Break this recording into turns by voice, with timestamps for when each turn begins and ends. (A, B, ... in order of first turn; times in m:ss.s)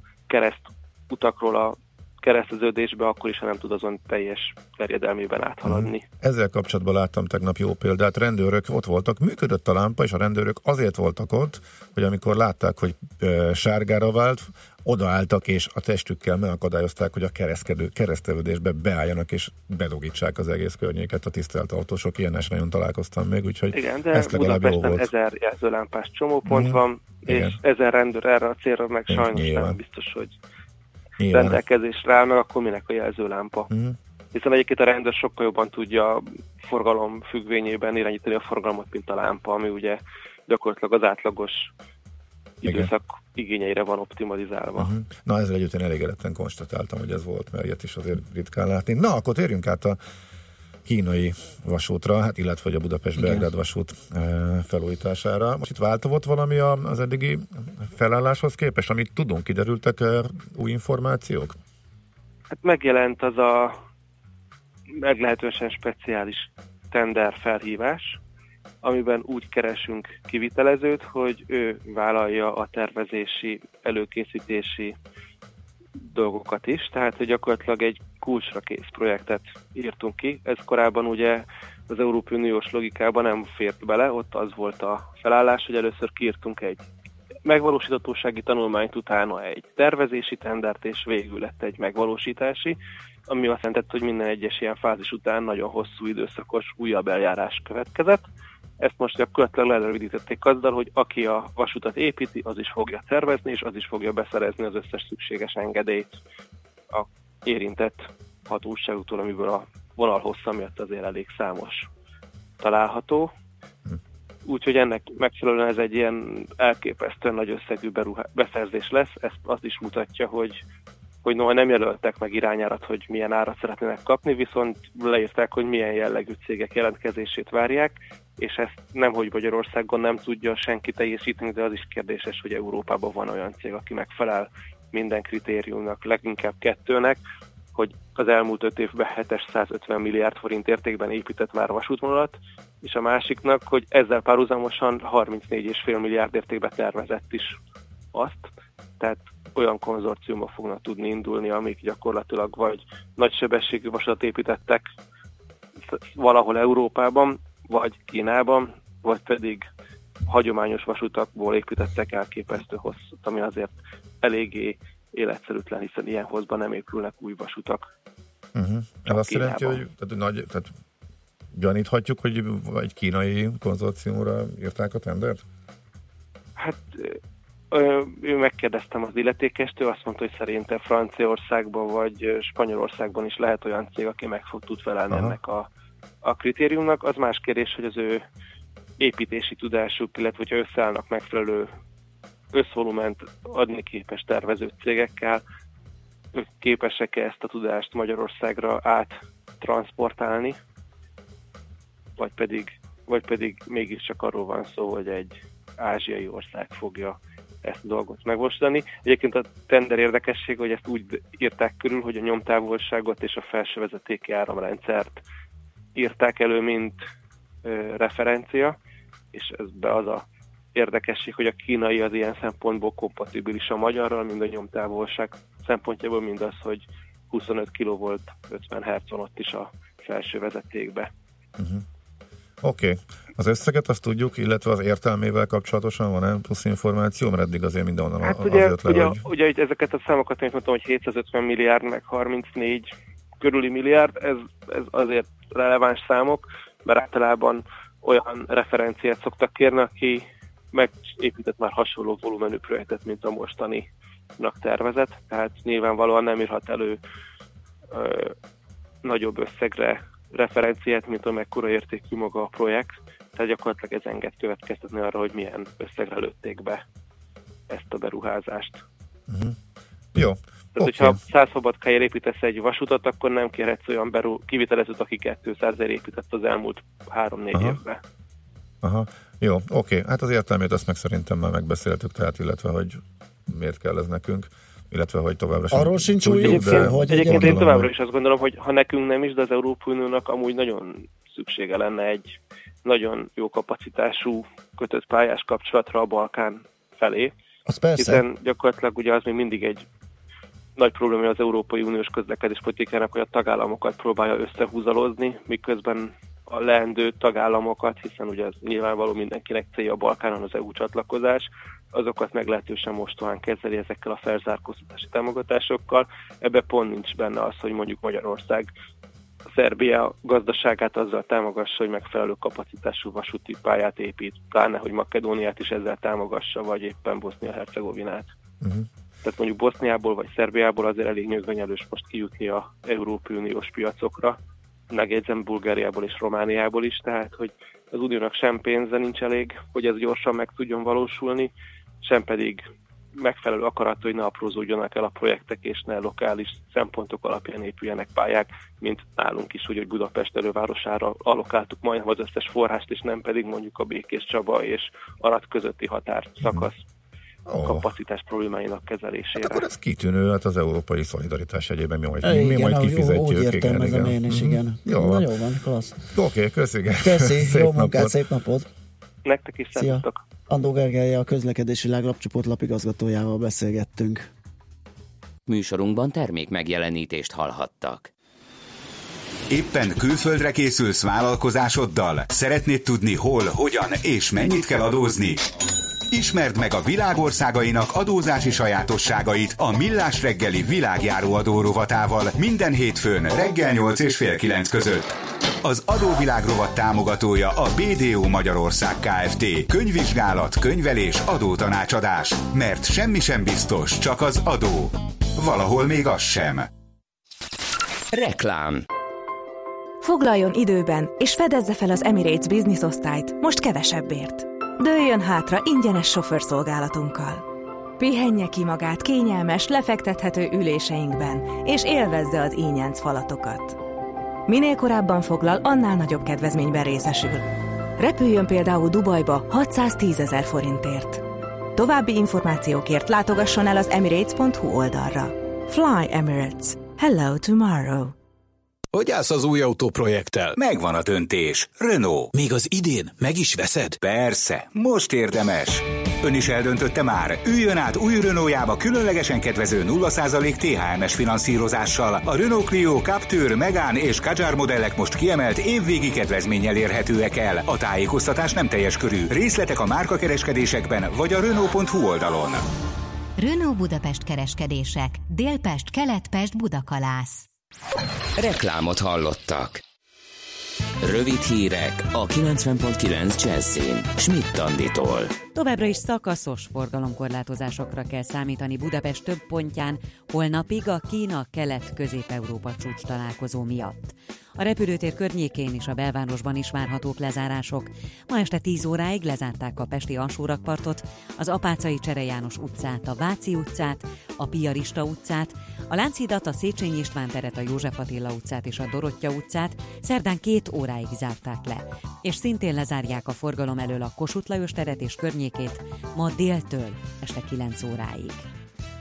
0:00.3-0:06.0 A
0:05.6-0:25.1 B
0:23.7-0:30.4 A
0:26.5-0:27.6 B
0:29.1-0:29.8 B
0:31.2-0:31.6 B
0:31.3-0:33.7 A
0:33.7-0:34.0 B
0:34.3-0:41.7 A
0:42.6-0:44.9 A
0:42.6-0:42.9 B
0:44.8-0:50.0 B
0:50.9-1:01.6 B
0:53.2-0:53.5 C
1:02.5-1:03.8 A
1:05.0-1:08.2 A
1:08.8-1:15.0 A
1:16.1-1:26.9 A
1:27.5-1:32.8 A
1:33.3-1:38.3 A
1:38.8-1:46.2 A
1:46.9-1:51.9 A
1:52.6-1:53.3 A
1:54.5-2:00.6 A
2:01.2-2:17.2 A
2:17.8-2:27.6 A
2:28.1-2:28.5 A
2:29.0-2:34.8 A
2:35.9-2:39.6 A
2:40.3-2:47.8 A
2:48.6-2:50.7 B
2:49.1-2:49.8 A
2:51.5-2:55.4 B
2:56.6-2:57.2 A
2:57.7-3:05.7 A
3:06.2-3:08.2 A
3:09.0-3:11.7 A
3:12.5-3:15.4 A
3:16.3-3:20.6 A
3:22.2-3:35.2 A
3:36.0-3:37.0 A
3:37.6-3:38.8 A
3:39.3-3:51.1 A
3:51.6-3:51.8 B
3:52.6-3:59.3 B
3:58.2-4:13.9 A
4:14.4-4:17.0 A
4:17.9-4:18.4 A
4:19.0-4:26.8 A
4:27.7-4:28.8 A
4:29.3-4:29.6 B
4:30.1-4:31.2 B
4:30.8-4:38.0 A
4:37.5-4:37.8 B
4:38.8-4:47.9 B
4:45.7-4:47.6 C
4:46.4-4:57.3 A
4:57.7-4:58.2 C
4:58.0-4:59.8 A
5:00.8-5:18.7 A
5:19.5-5:28.3 A
5:28.6-5:28.9 B
5:29.2-5:34.4 A
5:34.9-5:42.6 A
5:43.2-5:56.8 A
5:57.5-5:57.9 B
5:57.6-5:59.6 A
5:59.4-6:05.3 B
6:02.2-6:06.1 C
6:06.1-6:08.1 B
6:07.0-6:08.7 C
6:09.2-6:10.2 A
6:09.8-6:14.3 C
6:15.5-6:18.1 D
6:19.5-6:25.4 E
6:26.1-6:46.7 E
6:48.1-6:48.9 D
6:50.0-6:57.3 F
6:58.0-7:03.7 F
7:04.5-7:07.4 F
7:08.0-7:11.2 F
7:11.8-7:18.0 F
7:18.9-7:20.6 G
7:20.6-7:22.4 E
7:22.4-7:24.0 G
7:24.0-7:42.6 E
7:43.4-7:47.5 H
7:48.4-7:49.8 D
7:51.0-7:55.3 D
7:55.6-8:28.5 I